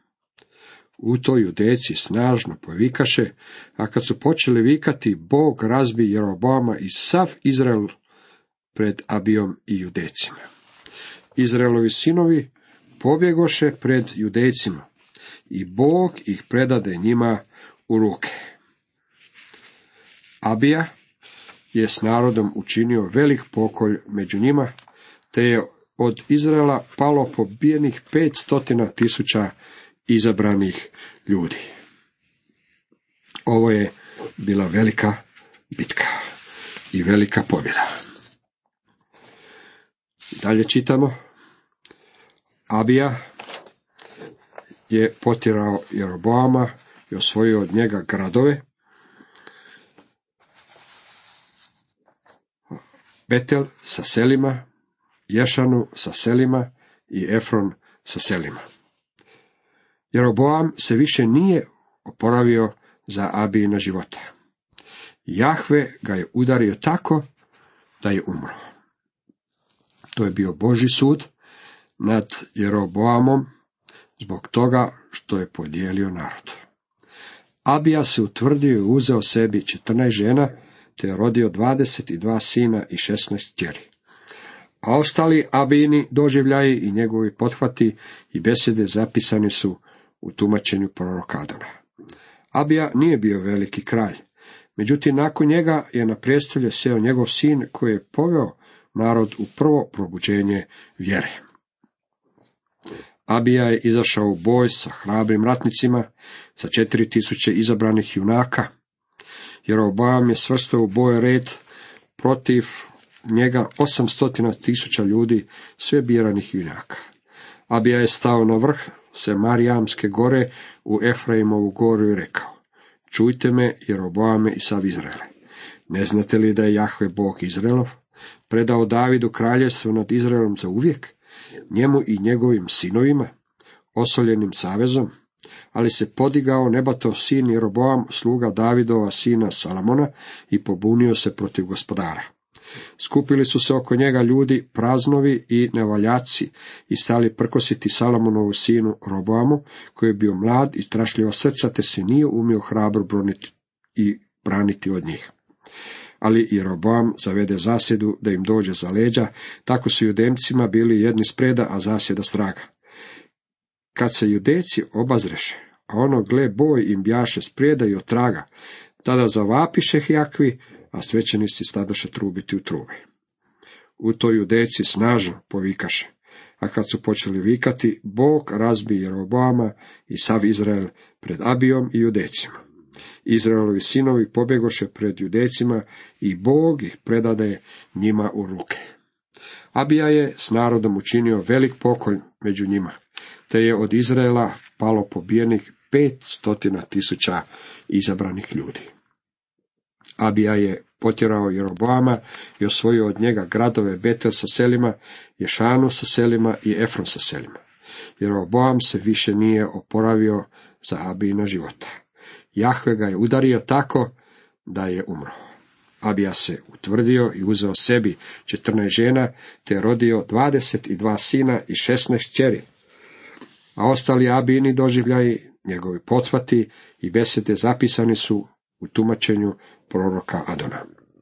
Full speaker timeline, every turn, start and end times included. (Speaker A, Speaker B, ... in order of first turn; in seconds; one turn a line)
Speaker A: 1.0-7.9
Speaker A: 8.7-10.4
Speaker A: 11.4-14.9
Speaker A: 15.5-18.4
Speaker A: 20.4-20.9
Speaker A: 21.7-24.7
Speaker A: 25.3-29.5
Speaker A: 30.1-31.6
Speaker A: 33.5-36.1
Speaker A: 36.9-37.9
Speaker A: 40.4-41.1
Speaker A: 42.7-43.2
Speaker A: 44.9-48.6
Speaker A: 53.3-54.7
Speaker A: 55.3-58.6
Speaker A: 60.1-64.2
Speaker A: 65.3-67.2
Speaker A: 68.0-68.6
Speaker A: 70.2-71.3
Speaker A: 72.0-73.5
Speaker A: 74.2-76.6
Speaker A: 77.7-83.9
Speaker A: 84.8-91.7
Speaker A: 92.5-94.2
Speaker A: 94.8-101.4
Speaker A: 103.3-108.7
Speaker A: 109.7-111.6
Speaker A: 112.2-117.0
Speaker A: 117.7-122.6
Speaker A: 123.1-125.3
Speaker A: 125.9-128.0
Speaker A: 128.5-131.2
Speaker A: 131.7-133.3
Speaker A: 133.9-135.1
Speaker A: 135.7-142.3
Speaker A: 143.0-155.3
Speaker A: 156.2-162.7
Speaker A: 163.9-168.5
Speaker A: 169.0-173.0
Speaker A: 174.0-182.6
Speaker A: 183.3-188.8
Speaker A: 189.8-193.0
Speaker A: 193.5-198.9
Speaker A: 200.2-207.6
Speaker A: 208.2-211.9
Speaker A: 212.6-214.1
Speaker A: 214.7-215.4
Speaker A: 216.0-222.7
Speaker A: 223.8-230.8